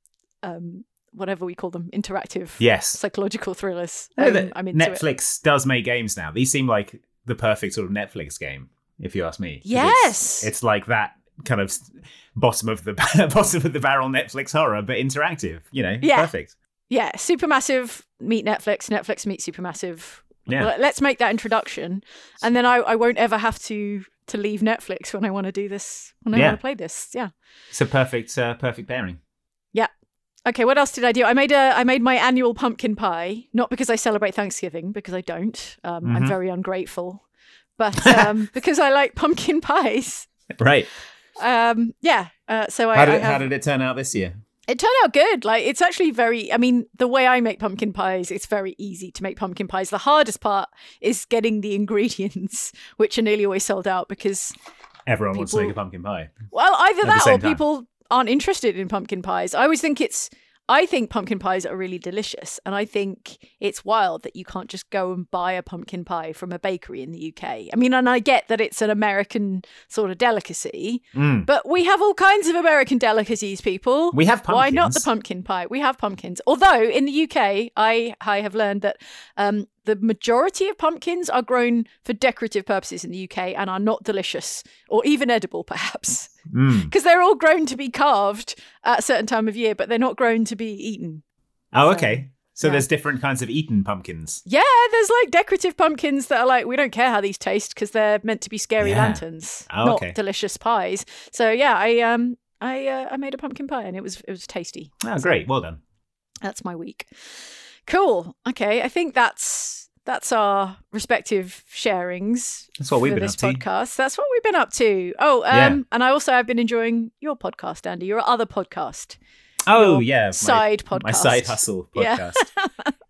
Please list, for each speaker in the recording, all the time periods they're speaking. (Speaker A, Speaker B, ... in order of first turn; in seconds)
Speaker A: 0.4-5.0, 9.7-10.5, 16.0-16.3, 16.9-27.3, 30.5-37.2, 37.8-40.3, 41.4-43.4, 44.7-54.5, 55.4-55.7, 56.5-86.3, 86.9-91.2, 91.9-92.8, 94.5-104.9, 106.5-107.1, 107.9-119.2, 119.8-121.5
Speaker B: 2.6-3.0, 4.2-16.5, 20.5-20.7, 26.3-26.6, 27.7-29.2, 36.0-36.4, 38.0-38.3, 40.6-40.9, 42.9-44.4, 55.1-56.3, 57.0-57.6, 71.1-71.5, 74.1-75.1, 86.5-86.9, 91.7-94.4, 98.8-100.2, 105.0-105.8, 112.8-113.6, 115.5-115.8, 119.7-122.5